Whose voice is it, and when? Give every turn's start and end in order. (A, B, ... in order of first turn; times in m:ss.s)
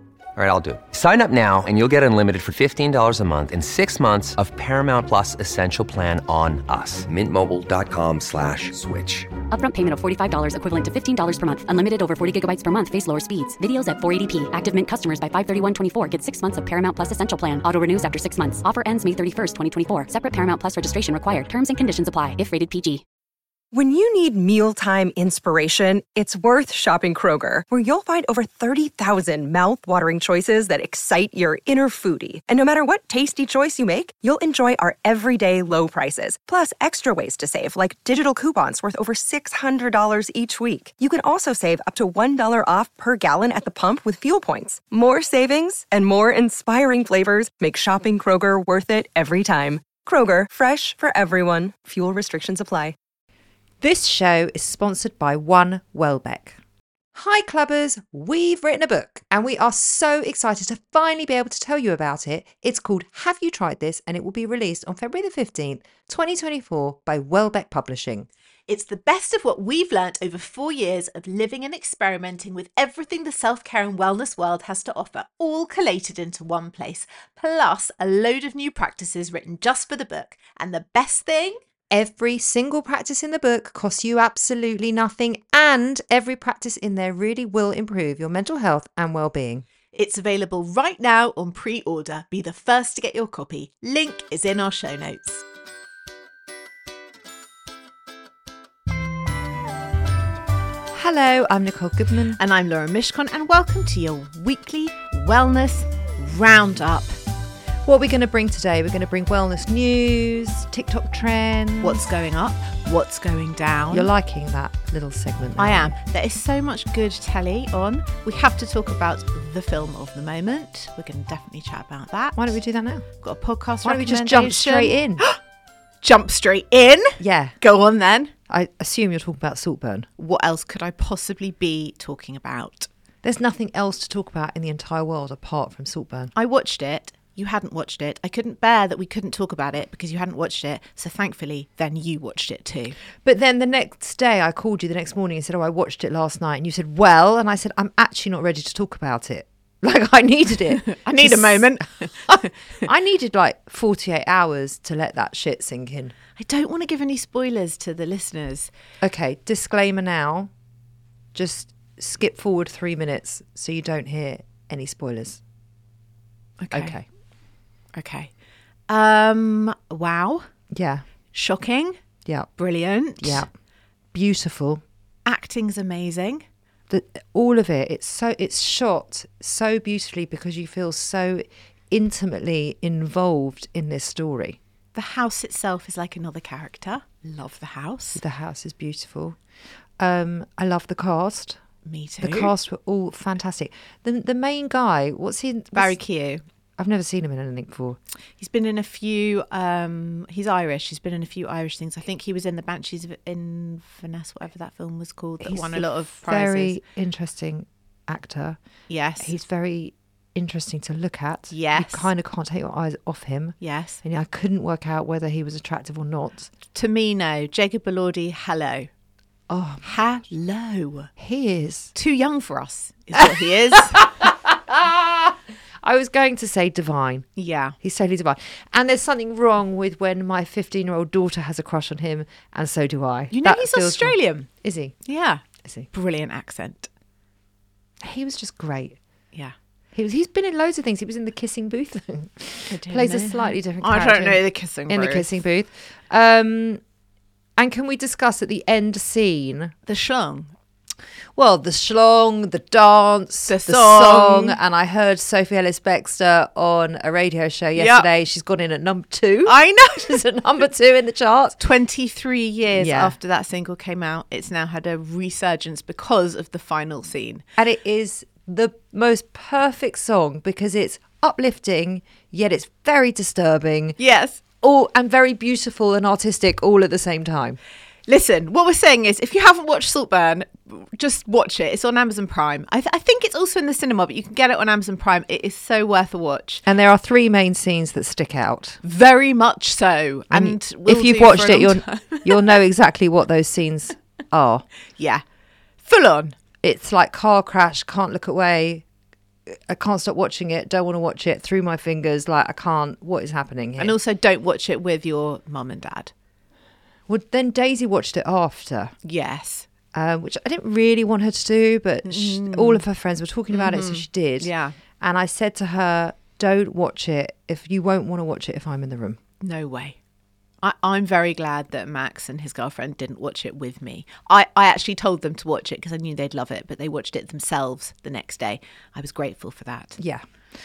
0:00.4-0:09.3 A
0:09.5-0:23.0 B
0:23.7-0:53.0 C
0:53.8-0:56.6 D
0:57.1-1:08.3 D
1:08.7-1:21.6 E
1:21.9-1:29.6 D
1:29.9-1:35.4 E
1:40.9-1:42.4 D
1:42.4-1:47.1 E
1:47.8-1:52.0 D
1:51.8-1:54.1 E
1:53.9-1:55.9 D
1:55.6-2:02.5 E
2:02.4-2:03.0 D
2:03.2-2:05.4 E
2:03.8-2:05.2 D
2:06.0-2:08.3 E
2:07.2-2:07.6 D
2:08.5-2:10.1 D
2:10.2-2:12.9 E
2:13.2-2:16.3 D
2:16.4-2:23.0 E
2:23.2-2:31.7 D
2:30.9-2:32.9 E
2:32.8-2:36.1 D
2:36.4-2:38.7 E
2:39.0-2:40.5 D
2:41.3-2:45.4 D
2:46.6-2:47.0 E
2:46.7-2:47.0 D
2:47.9-2:48.3 E
2:48.9-2:50.5 E
2:50.7-2:51.0 D
2:51.3-2:52.0 E
2:52.6-2:53.5 E
2:53.2-2:53.5 D
2:54.1-2:54.8 D
2:55.2-2:56.4 E
2:56.9-3:04.6 D
3:04.9-3:08.2 E
3:08.2-3:09.4 D
3:10.0-3:11.6 D
3:11.8-3:12.5 E
3:12.2-3:16.0 D
3:15.7-3:16.4 E
3:16.8-3:18.0 D
3:18.4-3:26.8 E
3:25.4-3:28.6 D
3:28.9-3:29.4 E
3:29.2-3:36.5 D
3:31.5-3:32.1 E
3:33.6-3:34.0 E
3:36.7-3:38.9 E
3:39.5-3:39.8 D
3:39.8-3:41.1 E
3:41.2-3:41.9 D
3:41.9-3:44.1 E
3:43.2-3:47.3 D
3:47.4-3:47.8 E
3:47.8-3:55.0 D
3:53.3-3:54.5 E
3:55.0-3:56.9 E
3:58.0-3:59.0 D
3:59.9-4:06.8 D
4:02.7-4:05.3 E
4:07.6-4:09.7 D
4:09.9-4:10.5 E
4:11.3-4:21.6 D
4:13.5-4:14.6 E
4:17.8-4:18.1 E
4:19.4-4:20.2 E
4:21.6-4:27.4 E
4:22.7-4:23.2 D
4:27.6-4:34.0 D
4:34.0-4:34.4 E
4:34.6-4:37.6 D
4:38.1-4:46.6 E
4:46.6-4:48.8 D
4:48.8-4:52.6 E
4:50.3-4:54.6 D
4:55.8-4:56.4 E
4:56.6-4:58.8 D
4:59.7-5:04.0 D
5:03.8-5:06.1 E
5:07.1-5:08.9 D
5:09.0-5:09.7 E
5:09.9-5:19.2 D
5:12.0-5:12.8 E
5:13.5-5:14.7 E
5:19.4-5:20.0 E
5:20.6-5:30.0 E